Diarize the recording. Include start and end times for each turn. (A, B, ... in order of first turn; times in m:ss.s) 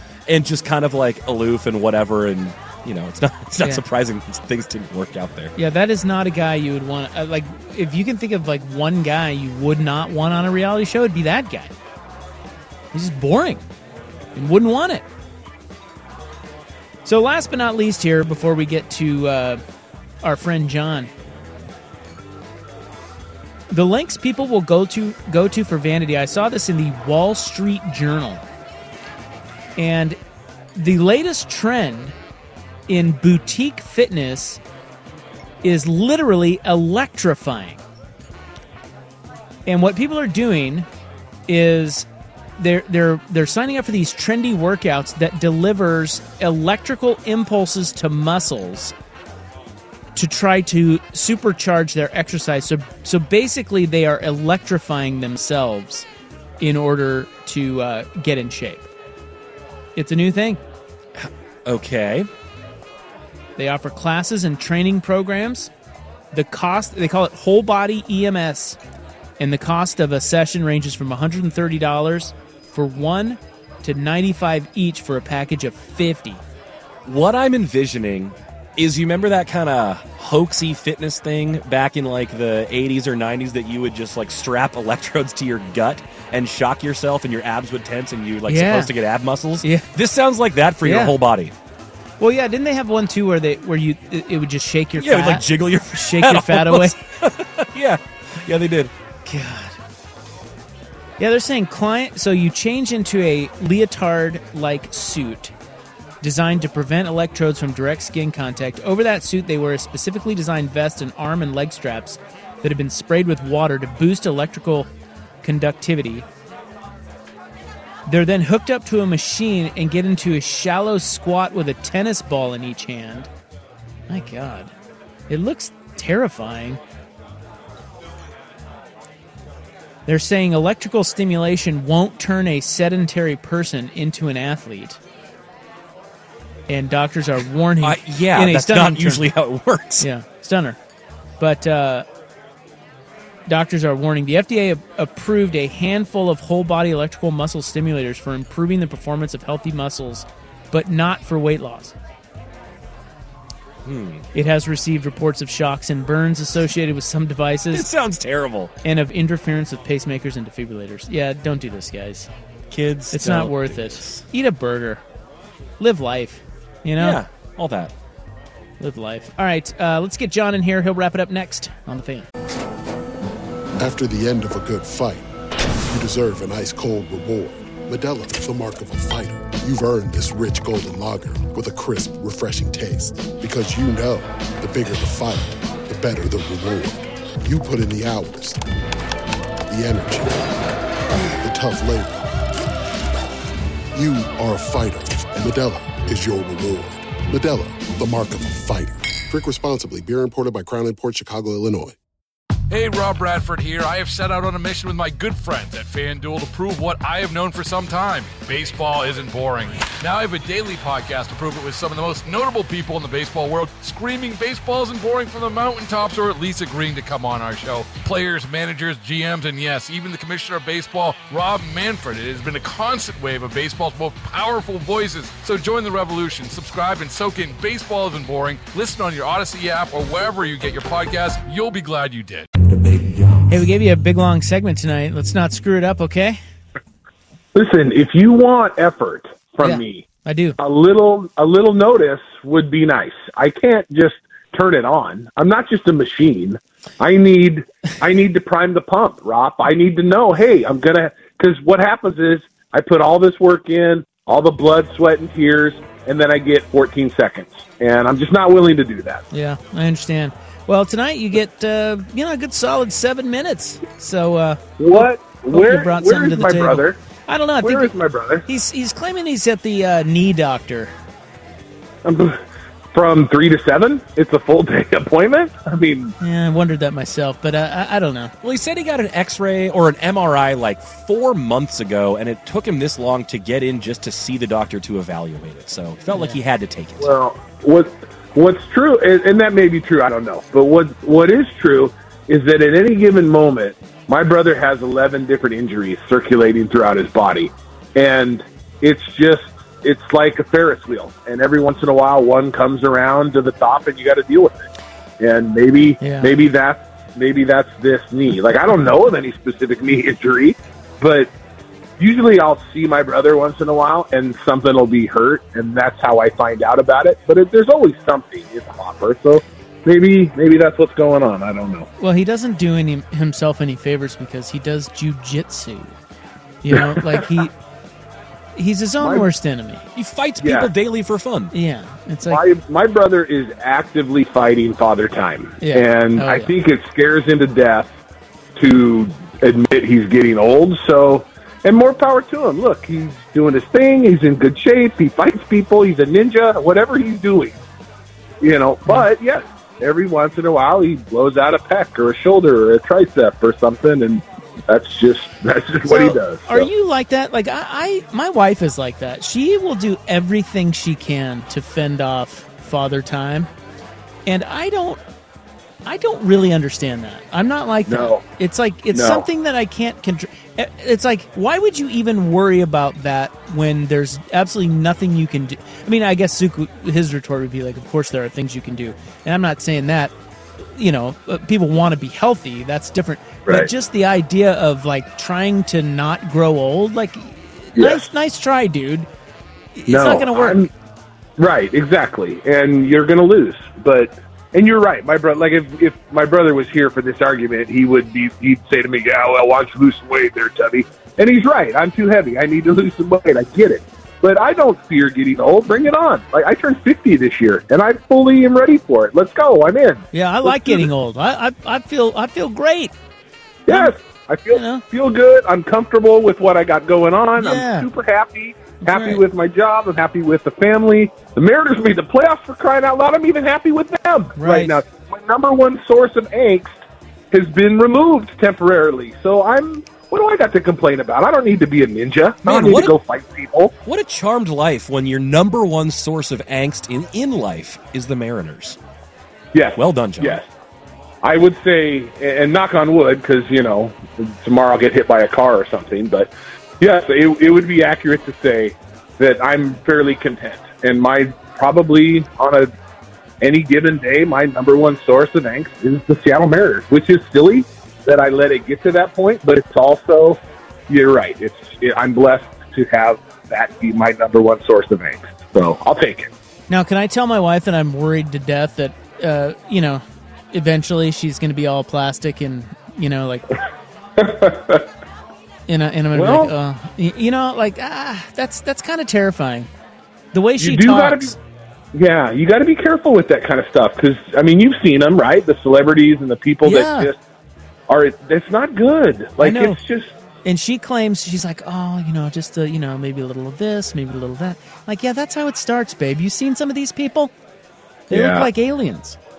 0:00.3-0:05.5 A
0:05.6-0:11.7 B
0:12.9-0:13.6 B
0:14.4-0:15.0 B
0:17.0-0:19.6 B
0:20.2-0:21.1 B
0:23.7-0:28.4 B
0:29.8-0:30.2 B
0:30.8-0:32.2 B
0:32.9-0:34.6 B
0:35.6-0:37.8 B
0:39.7-0:40.9 B
0:41.5-0:42.1 B
0:42.6-0:48.9 B
0:50.2-0:56.1 B
0:56.6-0:58.9 B
1:00.0-1:00.6 B
1:01.2-1:02.3 A
1:03.6-1:05.7 B
1:06.3-1:08.8 B
1:09.4-1:16.4 B
1:17.1-1:31.5 A
1:28.5-1:28.9 B
1:29.6-1:29.9 B
1:30.8-1:31.1 B
1:32.2-1:37.0 B
1:35.0-1:38.9 A
1:39.3-1:39.8 B
1:41.2-1:45.5 B
1:46.2-1:54.9 B
1:55.4-1:56.3 B
1:58.1-2:03.3 B
2:04.1-2:04.7 B
2:05.3-2:06.8 B
2:10.1-2:15.0 B
2:16.7-2:19.3 B
2:17.8-2:20.1 A
2:20.0-2:20.8 B
2:21.4-2:22.1 B
2:23.5-2:31.9 B
2:33.8-2:34.3 A
2:34.3-2:37.9 B
2:37.7-2:38.7 A
2:38.8-2:42.3 B
2:42.7-2:44.2 A
2:43.1-2:45.0 B
2:45.8-2:47.2 B
2:47.0-2:47.9 A
2:48.8-2:52.3 B
2:53.8-2:55.3 C
2:55.9-3:08.6 C
3:09.7-3:10.6 C
3:11.4-3:12.3 C
3:13.9-3:22.0 C
3:22.7-3:52.5 D
3:53.5-3:56.4 B
3:57.6-4:19.2 E
3:59.6-4:00.6 B
4:19.3-4:28.0 B
4:24.8-4:27.0 E
4:27.6-4:28.4 E
4:28.5-4:30.9 B
4:32.0-4:32.4 E
4:32.9-4:36.1 E
4:36.2-4:38.3 B
4:38.4-4:47.1 A
4:46.1-4:46.4 B
4:47.0-5:04.7 E
5:05.2-5:11.3 E
5:06.0-5:06.3 B
5:12.0-5:21.9 E
5:22.0-5:25.9 B
5:26.6-5:27.5 B
5:26.7-5:27.5 E
5:28.6-5:29.8 B
5:29.0-5:29.3 E
5:30.0-5:31.5 A
5:30.4-5:30.7 E
5:31.5-5:32.4 B
5:32.3-5:37.9 E
5:35.6-5:36.5 B
5:38.6-5:47.6 E
5:48.4-5:56.7 E
5:55.8-6:03.5 B
6:04.3-6:05.0 B
6:05.8-6:29.1 B
6:07.9-6:08.2 E
6:08.9-6:09.3 E
6:23.5-6:23.7 E
6:27.8-6:28.1 E
6:29.8-6:30.6 B
6:29.9-6:30.7 E
6:31.4-6:50.9 E
6:50.1-6:52.9 B
6:53.7-7:06.8 E
6:53.7-6:54.0 B
6:54.5-6:54.8 B
6:57.4-6:57.9 B
6:58.8-6:59.2 B
7:04.4-7:04.8 B
7:07.3-7:13.7 E
7:12.4-7:13.0 A
7:13.8-7:18.8 A
7:19.5-7:20.4 E
7:19.8-7:20.4 A
7:21.2-7:32.7 E
7:33.4-7:46.3 E
7:46.7-7:53.5 B
7:54.2-7:54.8 E
7:55.7-7:59.7 B
7:56.1-7:56.5 E
8:00.3-8:01.4 B
8:00.6-8:01.4 E
8:01.9-8:07.2 E
8:06.6-8:07.1 B
8:07.9-8:10.1 E
8:09.4-8:09.8 B
8:10.4-8:17.3 B
8:18.1-8:18.5 E
8:18.1-8:19.2 B